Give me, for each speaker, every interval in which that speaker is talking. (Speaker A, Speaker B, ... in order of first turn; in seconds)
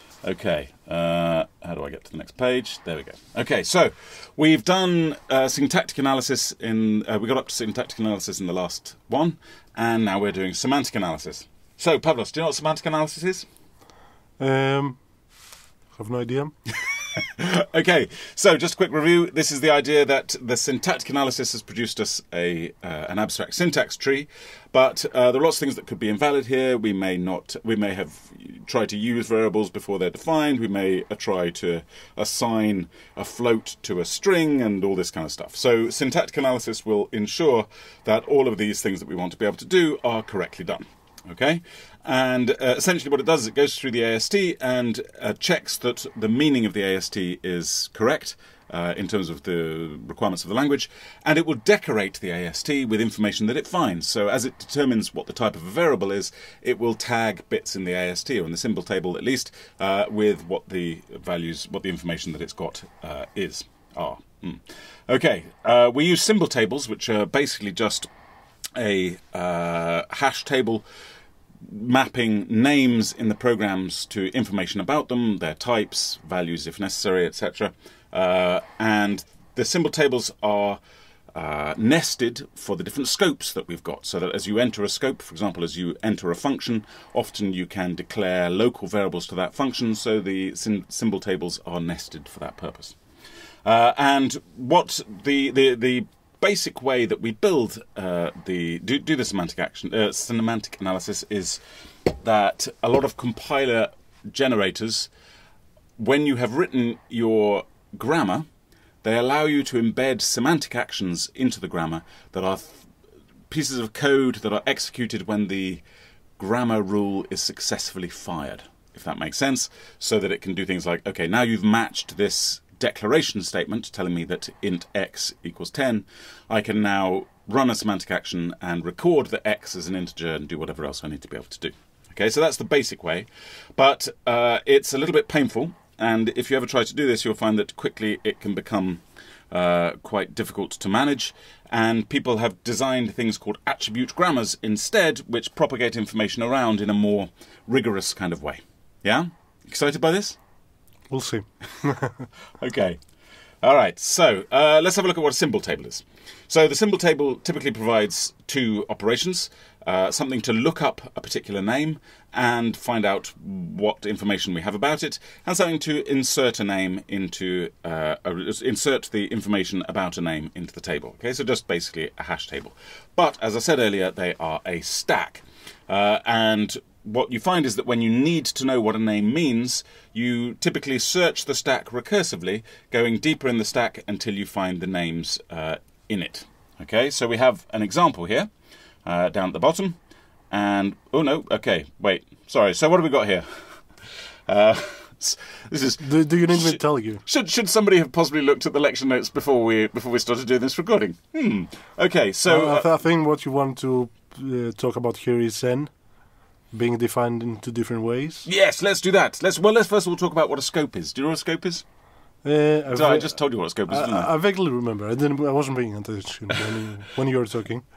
Speaker A: 0.2-13.5, 17.2-68.1, 68.8-70.8, 71.6-80.8, 81.3-93.0, 93.7-105.1, 106.0-108.5, 109.0-112.9, 113.5-115.8, 116.4-150.4, 152.6-153.0, 153.6-188.5, 189.1-190.0, 190.5-193.4, 194.5-202.9, 208.4-211.8, 212.9-214.3
Speaker B: 14.4-15.0, 15.9-16.5, 151.1-152.3, 196.0-197.2, 202.5-205.9, 206.7-208.5, 212.4-217.8